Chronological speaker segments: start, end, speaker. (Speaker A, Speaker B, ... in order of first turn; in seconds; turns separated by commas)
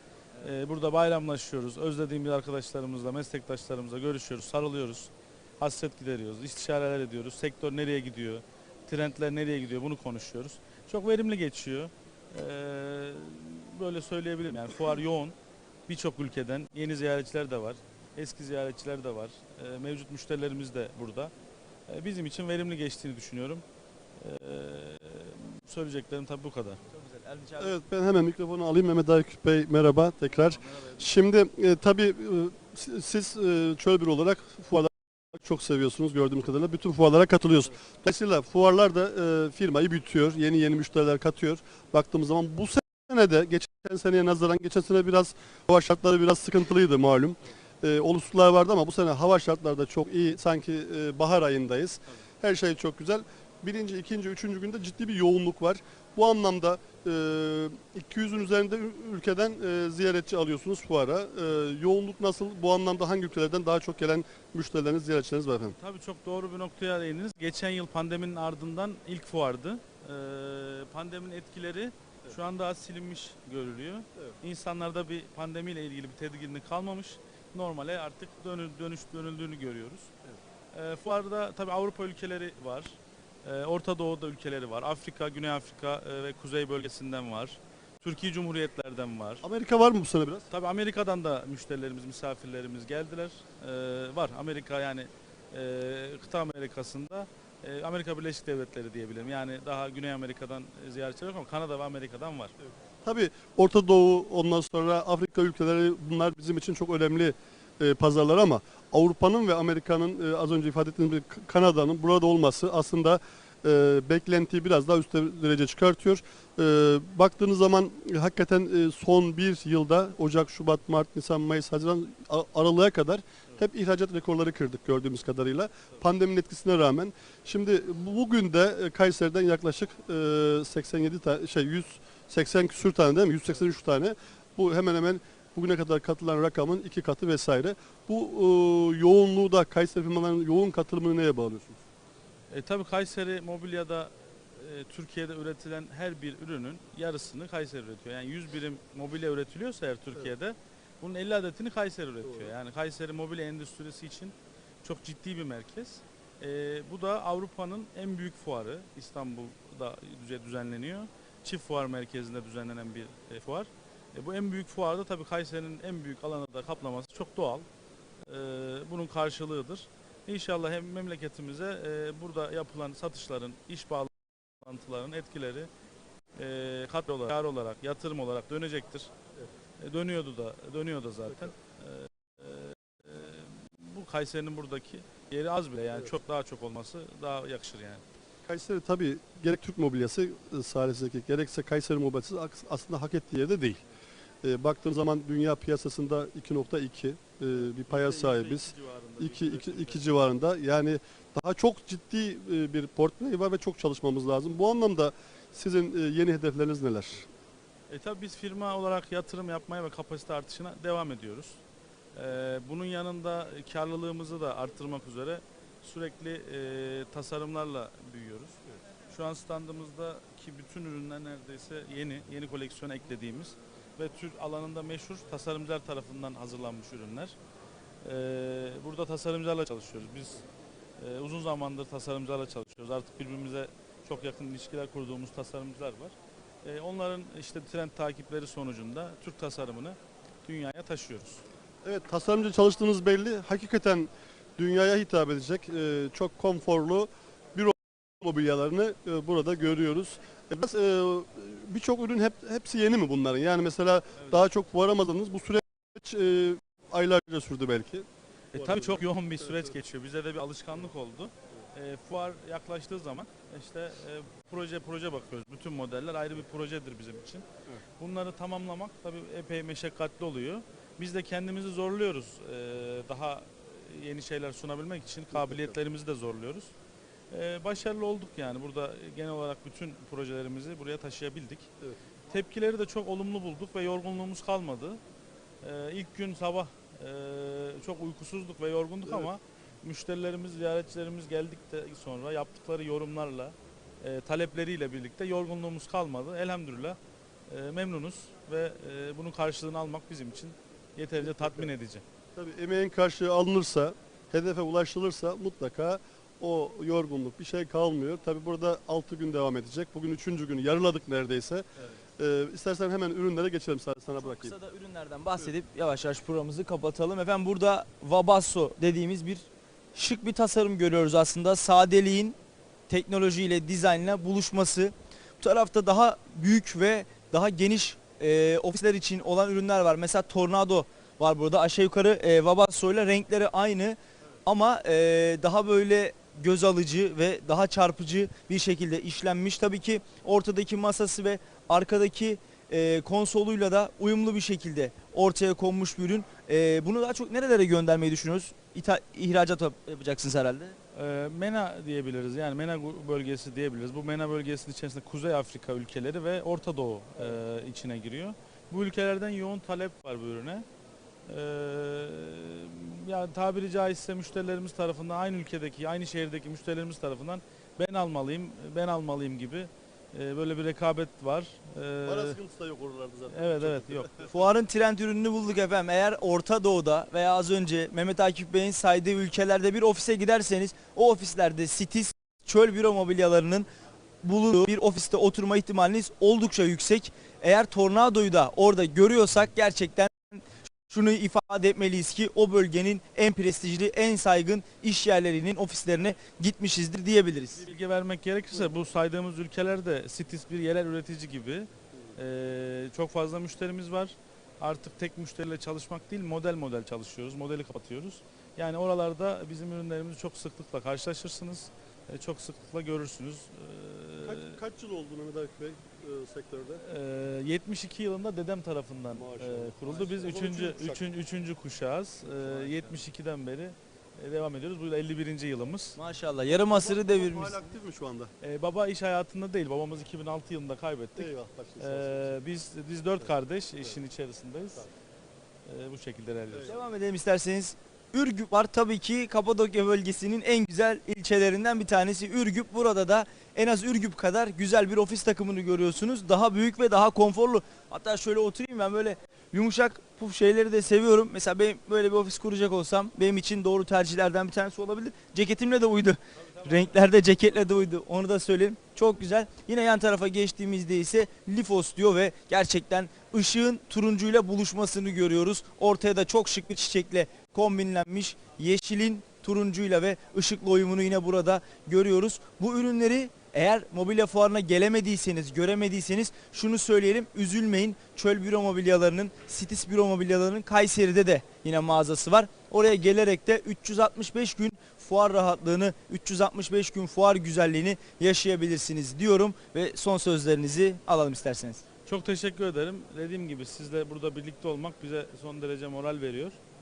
Speaker A: 0.4-15.3, Speaker A: 15.9-21.3, Speaker A: 21.9-23.6, Speaker A: 24.2-26.8, Speaker B: 26.9-27.8, Speaker C: 27.6-65.8, Speaker A: 30.3-31.0, Speaker A: 65.6-80.1, Speaker A: 80.7-89.4, Speaker C: 89.4-90.5, Speaker A: 90.5-102.5, Speaker C: 103.0-141.8, Speaker A: 142.5-167.7, Speaker C: 152.3-152.5, Speaker A: 168.2-175.7, Speaker A: 176.3-179.1, Speaker A: 179.8-188.0, Speaker C: 188.5-193.8, Speaker C: 194.4-207.3, Speaker A: 197.5-200.3, Speaker A: 207.9-211.6, Speaker A: 212.1-227.3, Speaker A: 228.0-230.4, Speaker A: 231.0-241.4, Speaker C: 241.8-259.7, Speaker A: 254.2-254.4, Speaker A: 258.5-267.4, Speaker A: 268.0-276.7, Speaker C: 275.3-275.8, Speaker A: 277.3-281.7, Speaker A: 282.3-285.0, Speaker A: 285.6-302.0, Speaker C: 301.2-301.7, Speaker C: 302.3-314.5, Speaker B: 314.2-322.4, Speaker B: 322.9-350.8, Speaker A: 350.9-360.6, Speaker A: 361.3-372.4, Speaker C: 372.0-374.3, Speaker A: 373.3-374.3, Speaker B: 374.3-383.7, Speaker B: 384.2-397.6, Speaker A: 397.6-414.6, Speaker C: 414.2-416.8, Speaker A: 416.8-426.0, Speaker C: 419.1-421.0, Speaker C: 422.5-422.9, Speaker B: 425.9-427.6, Speaker C: 426.5-428.3, Speaker A: 428.4-434.9, Speaker C: 431.2-432.3, Speaker A: 435.6-436.8, Speaker B: 436.7-491.8, Speaker A: 456.4-457.8, Speaker A: 492.1-496.6